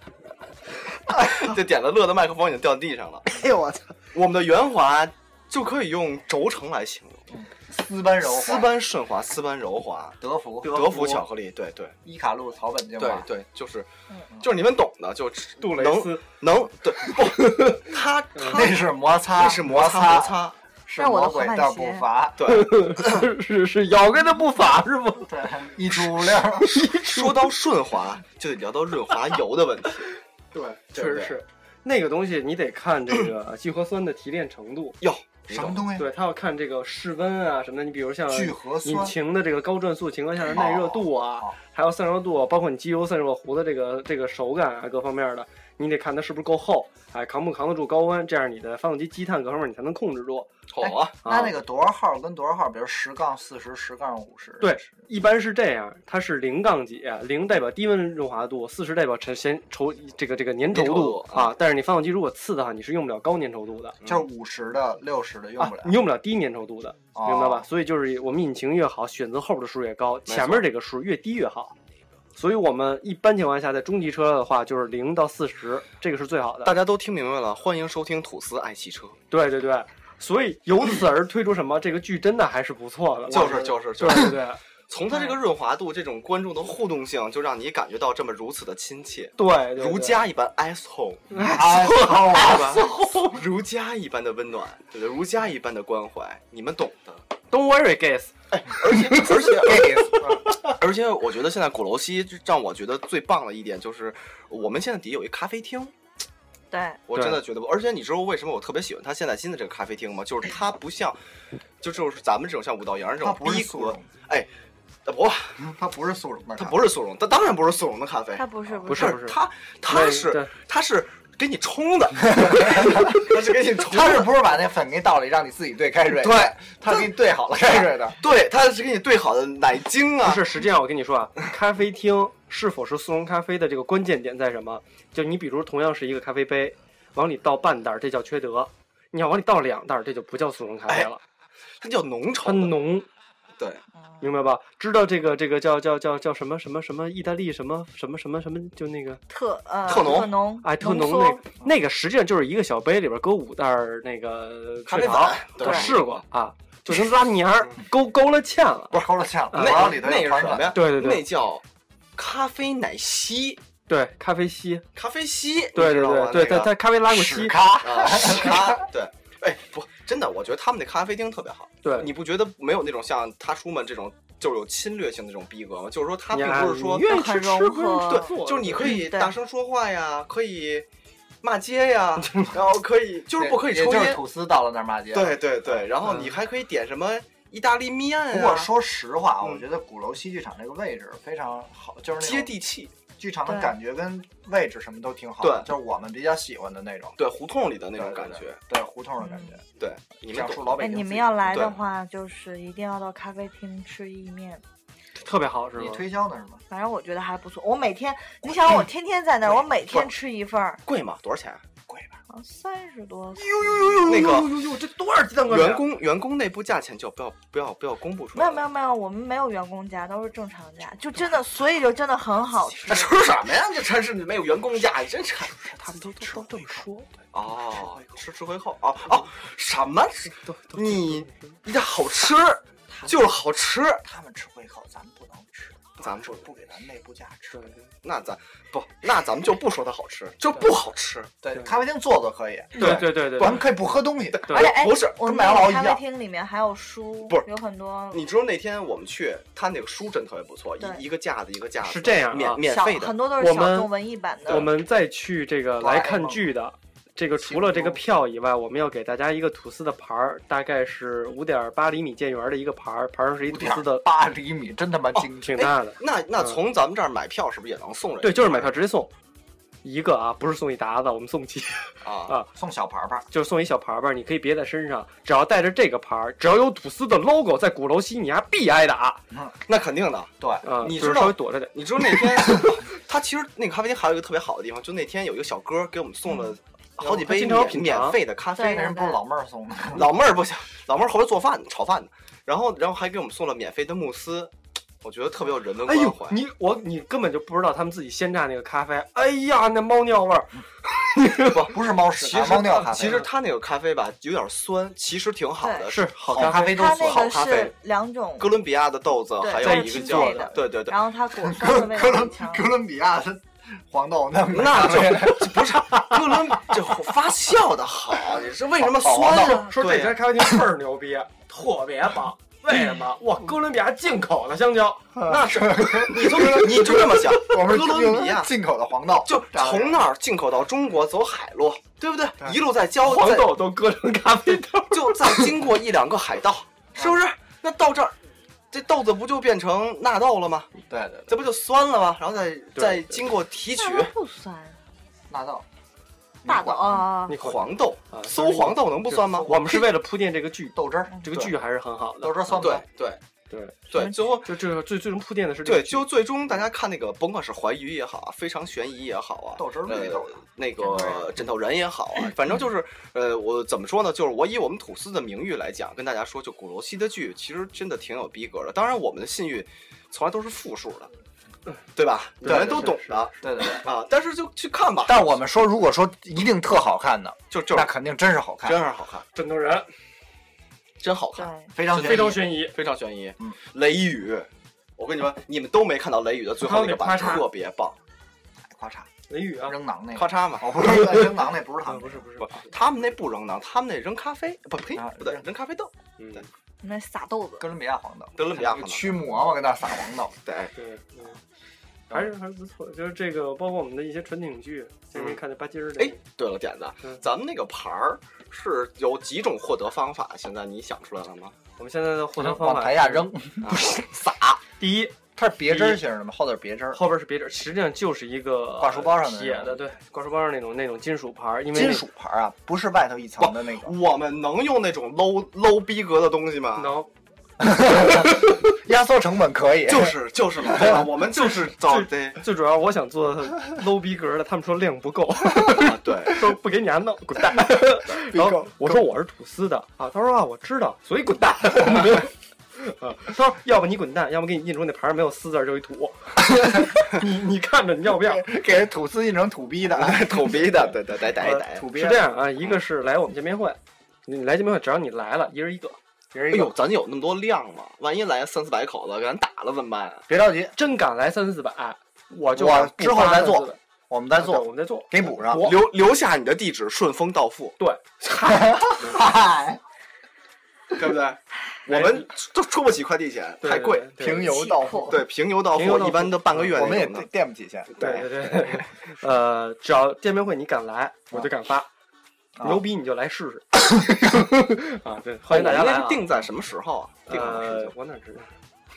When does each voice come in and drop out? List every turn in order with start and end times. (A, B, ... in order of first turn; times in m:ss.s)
0:01.1-0:03.3 A
0:03.4-0:03.9 B
0:04.1-0:07.2 A
0:07.3-0:08.8 C
0:08.2-0:11.9 A
0:10.2-0:11.1 C
0:10.6-0:11.2 B
0:12.0-0:13.3 C
0:13.0-0:13.9 A
0:14.4-0:20.6 A
0:15.6-0:16.2 B
0:17.2-0:18.6 B
0:18.4-0:22.6 C
0:21.0-0:22.1 D
0:22.4-0:23.3 A
0:22.4-0:25.4 B
0:25.2-0:26.7 C
0:26.4-0:30.1 A
0:26.7-0:27.5 B
0:30.5-0:35.0 B
0:30.9-0:31.4 A
0:35.0-0:35.8 A
0:35.5-0:36.1 C
0:36.0-0:50.5 B
0:38.3-0:39.2 C
0:40.6-0:41.6 C
0:50.7-0:51.2 A
0:50.8-0:54.9 C
0:51.2-0:51.6 B
0:54.6-1:04.0 B
1:00.7-1:01.5 A
1:04.0-1:06.0 C
1:05.6-1:11.7 B
1:07.1-1:07.7 C
1:10.3-1:10.7 A
1:12.4-1:16.8 B
1:16.6-1:19.2 A
1:19.3-1:24.6 B
1:23.3-1:31.4 A
1:23.3-1:24.3 C
1:29.4-1:30.2 B
1:31.3-1:33.1 B
1:31.4-1:33.2 C
1:32.0-1:37.2 A
1:37.5-1:38.3 B
1:38.5-1:45.9 A
1:39.0-1:40.7 C
1:46.7-1:47.0 D
1:47.1-1:51.2 A
1:47.1-1:47.4 B
1:51.8-1:54.5 A
1:53.2-1:54.1 C
1:55.0-1:55.6 A
1:55.6-1:56.8 C
1:56.6-2:04.3 A
1:58.3-1:59.2 D
1:58.9-2:00.5 B
2:02.2-2:08.2 C
2:06.2-2:07.1 A
2:07.6-2:10.5 A
2:10.2-2:21.2 B
2:21.8-2:22.8 A
2:22.4-2:23.1 B
2:24.2-2:29.2 B
2:29.3-2:31.4 D
2:29.9-2:30.4 A
2:30.6-2:39.0 B
2:34.9-2:36.2 A
2:35.6-2:35.9 D
2:38.9-2:40.8 C
2:39.5-2:40.0 B
2:39.5-2:41.6 A
2:40.7-2:41.3 B
2:42.2-2:43.6 A
2:43.9-2:44.8 B
2:44.9-2:46.7 A
2:45.7-2:47.6 B
2:47.1-2:48.9 C
2:47.8-2:57.2 A
2:51.8-2:52.1 B
2:56.3-2:59.0 B
2:57.0-2:59.4 D
2:58.0-3:00.9 A
3:01.4-3:04.2 A
3:03.4-3:05.7 C
3:05.1-3:08.7 A
3:06.0-3:06.3 B
3:08.3-3:12.6 C
3:12.2-3:12.9 A
3:13.2-3:17.2 C
3:13.4-3:13.8 D
3:15.4-3:15.7 A
3:17.2-3:18.6 A
3:17.9-3:19.6 C
3:19.2-3:19.6 D
3:19.8-3:20.8 A
3:20.3-3:21.7 C
3:20.8-3:24.6 D
3:21.5-3:21.8 A
3:25.2-3:26.0 B
3:25.8-3:26.6 C
3:26.7-3:30.8 D
3:29.9-3:30.1 A
3:30.9-3:31.6 A
3:31.9-3:32.2 C
3:32.3-3:34.1 D
3:33.3-3:35.9 B
3:34.0-3:34.5 A
3:35.5-3:38.7 A
3:38.3-3:43.1 D
3:42.8-3:45.6 A
3:45.4-3:46.9 C
3:45.8-3:47.1 B
3:47.3-3:54.0 A
3:47.7-3:48.2 C
3:50.4-3:51.6 B
3:52.9-3:53.2 C
3:54.0-3:57.7 C
3:56.0-3:56.4 A
3:57.5-3:57.8 B
3:58.0-4:01.3 A
4:01.4-4:06.0 C
4:02.7-4:03.1 A
4:02.8-4:03.7 B
4:04.3-4:05.2 A
4:04.5-4:08.4 D
4:08.1-4:13.3 A
4:11.8-4:12.7 B
4:12.6-4:14.7 D
4:13.3-4:13.9 B
4:14.4-4:14.7 A
4:14.4-4:24.1 B
4:15.8-4:16.5 C
4:17.4-4:18.0 C
4:23.4-4:25.7 C
4:25.1-4:28.7 A
4:25.4-4:26.6 B
4:28.2-4:29.1 B
4:29.8-4:32.5 B
4:32.0-4:32.4 A
4:32.5-4:33.2 C
4:33.3-4:39.2 B
4:39.7-4:48.9 A
4:40.4-4:40.6 C
4:40.6-4:42.2 B
4:47.0-4:48.2 B
4:48.5-4:49.2 D
4:48.6-4:50.1 C
4:49.9-4:56.4 A
4:55.8-5:00.5 B
5:01.1-5:01.6 B
5:01.5-5:07.7 A
5:01.6-5:03.3 C
5:05.6-5:05.9 D
5:05.9-5:06.9 B
5:06.2-5:07.6 C
5:06.4-5:08.6 D
5:08.4-5:11.0 A
5:09.4-5:12.7 D
5:09.6-5:10.6 B
5:11.4-5:17.0 C
5:14.5-5:20.3 A
5:18.8-5:19.7 C
5:19.2-5:27.2 B
5:25.2-5:30.0 C
5:25.9-5:28.5 A
5:29.2-5:33.6 A
5:33.0-5:35.5 B
5:34.9-5:38.2 A
5:38.7-5:40.7 A
5:40.9-5:41.4 C
5:41.3-5:44.1 A
5:42.8-5:43.1 B
5:43.7-5:44.8 D
5:45.3-5:45.6 C
5:46.4-5:47.0 C
5:46.4-5:47.4 D
5:47.1-5:52.7 B
5:47.3-5:49.9 A
5:50.7-5:51.2 C
5:52.2-5:52.8 C
5:52.6-5:53.2 A
5:53.5-5:53.9 B
5:53.9-5:54.5 A
5:53.9-5:54.3 D
5:54.4-5:56.1 B
5:55.6-6:11.1 A
5:59.6-6:00.4 C
6:00.8-6:01.3 D
6:11.9-6:15.3 A
6:12.4-6:13.3 B
6:12.4-6:13.9 C
6:15.0-6:18.8 C
6:17.5-6:17.9 A
6:18.6-6:19.3 A
6:19.3-6:19.9 B
6:21.0-6:28.0 A
6:21.4-6:21.7 D
6:21.7-6:22.4 C
6:21.9-6:22.8 B
6:26.6-6:27.5 B
6:28.7-6:29.1 C
6:29.3-6:29.8 B
6:29.6-6:32.3 C
6:30.1-6:31.0 A
6:31.9-6:32.7 B
6:32.7-6:36.5 A
6:34.9-6:35.4 C
6:36.2-6:36.5 B
6:36.8-6:37.7 D
6:37.6-6:40.3 C
6:38.4-6:39.2 A
6:40.4-6:40.7 A
6:40.7-6:41.4 B
6:42.1-6:46.2 B
6:45.1-6:45.4 A
6:46.0-6:51.6 A
6:51.8-6:53.3 B
6:52.4-6:53.9 C
6:53.6-6:54.6 A
6:54.8-6:56.0 B
6:55.4-6:57.0 C
6:56.9-7:02.0 B
6:58.8-6:59.8 C
7:01.7-7:04.0 C
7:03.4-7:06.9 A
7:06.8-7:07.1 B
7:07.6-7:11.0 C
7:09.9-7:12.4 A
7:11.3-7:28.5 B
7:15.7-7:16.4 A
7:18.2-7:19.1 C
7:28.1-7:30.7 C
7:29.9-7:31.9 A
7:31.4-7:36.0 B
7:31.4-7:32.3 C
7:36.3-7:36.8 C
7:36.5-7:40.3 A
7:40.3-7:40.8 C
7:40.8-7:43.8 B
7:42.5-7:45.7 C
7:44.3-7:45.8 B
7:45.5-7:47.8 A
7:47.8-7:48.9 B
7:48.4-7:49.8 C
7:50.9-7:57.3 A
7:51.9-7:52.3 B
7:53.6-7:54.6 B
7:54.2-7:55.3 C
7:54.5-7:55.0 D
7:55.7-7:56.7 B
7:56.6-7:57.9 C
7:57.9-7:58.8 A
7:58.0-8:01.9 B
8:02.6-8:02.8 C
8:02.6-8:06.3 B
8:05.5-8:07.9 A
8:07.3-8:08.5 B